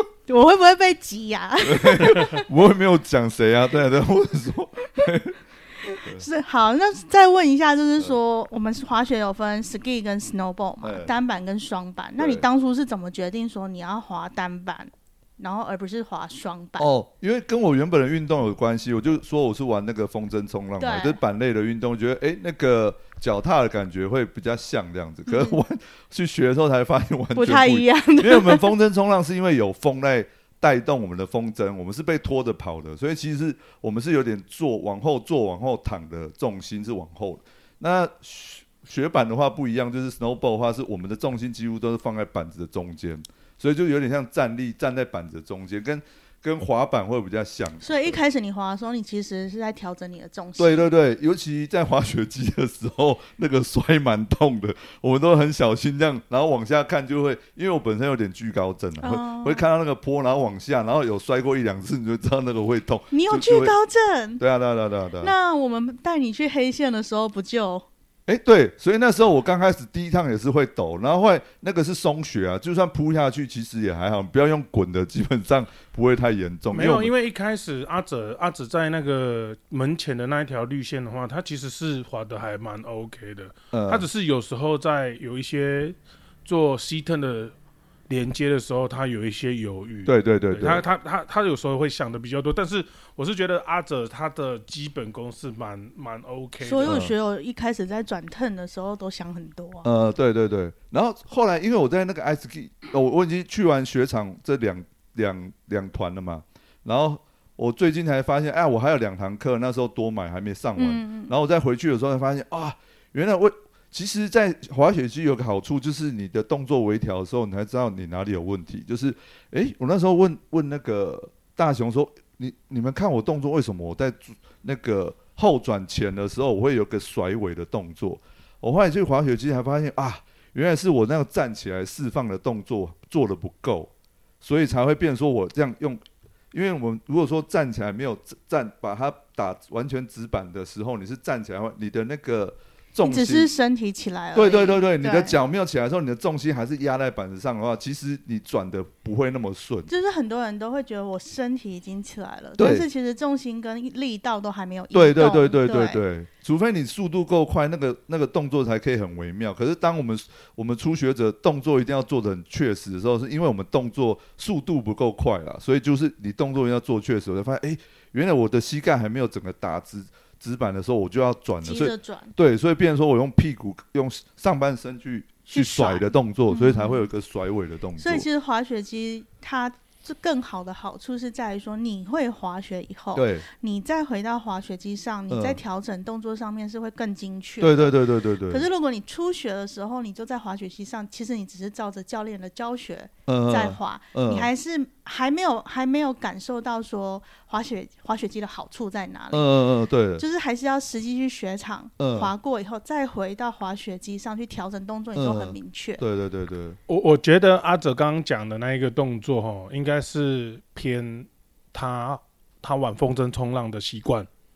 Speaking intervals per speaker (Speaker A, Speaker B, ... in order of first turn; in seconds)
Speaker A: 0.3-2.5, 6.1-16.9, 20.8-21.2, 25.3-25.6, 27.4-28.7, 47.8-50.9, 59.0-59.6, 63.1-64.4, 65.2-67.9, 96.6-99.9, 110.8-111.3, 143.0-145.3, 149.9-156.0, 171.6-172.3, 175.5-177.1, 178.0-188.0, 188.5-199.6, 200.2-206.0
Speaker B: 1.6-5.4, 5.9-6.3, 10.8-11.1, 12.2-12.4, 16.8-48.2, 50.6-63.7, 64.4-65.3, 68.3-77.1, 83.7-84.1, 90.1-90.8, 96.8-97.1, 99.8-136.0, 136.5-143.5, 144.3-149.9, 152.6-152.9, 154.9-178.3, 183.2-183.4, 185.3-185.6, 187.6-188.7, 193.3-194.5, 199.3-200.2, 202.0-202.3, 205.2-206.8
Speaker C: 76.7-87.5, 88.1-97.0, 206.9-214.3